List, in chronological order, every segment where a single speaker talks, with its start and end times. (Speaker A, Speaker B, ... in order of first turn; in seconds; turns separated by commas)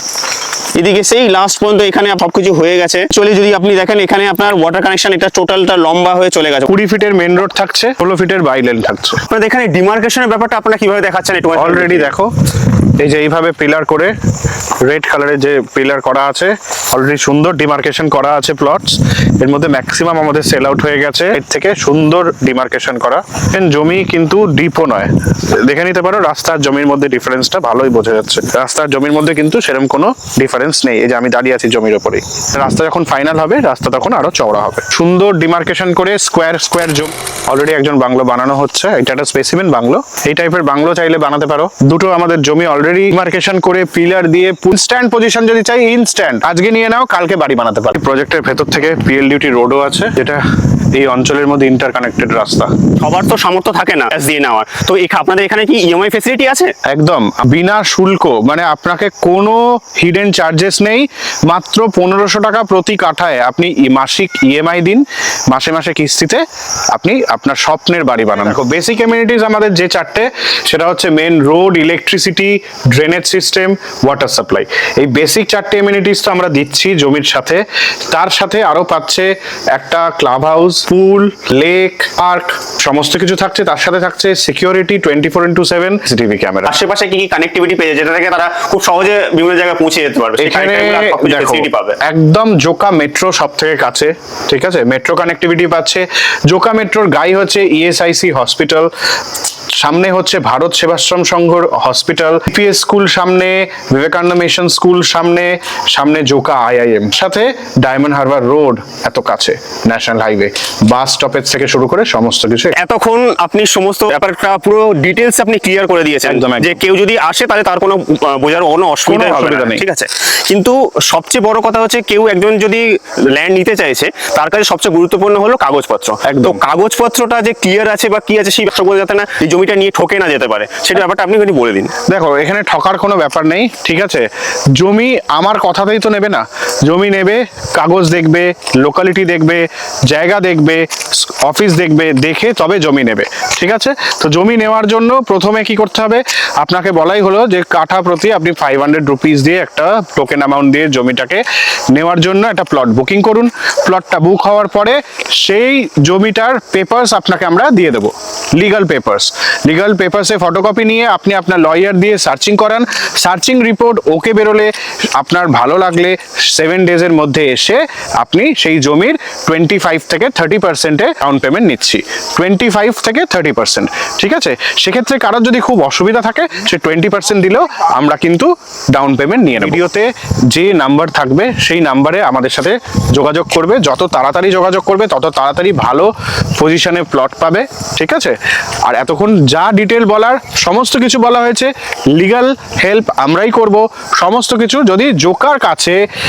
Speaker A: 0.8-6.7, Speaker B: 6.7-9.2, Speaker A: 9.3-12.1, Speaker B: 11.6-14.1, Speaker B: 14.8-50.4, Speaker B: 51.0-52.7, Speaker A: 53.0-56.7, Speaker B: 56.9-86.7, Speaker A: 86.7-92.0, Speaker B: 90.4-98.9, Speaker B: 99.8-112.8, Speaker A: 112.7-131.9, Speaker B: 116.2-116.8, Speaker B: 119.1-119.8, Speaker B: 126.2-126.6, Speaker B: 132.1-188.3, Speaker B: 188.8-196.0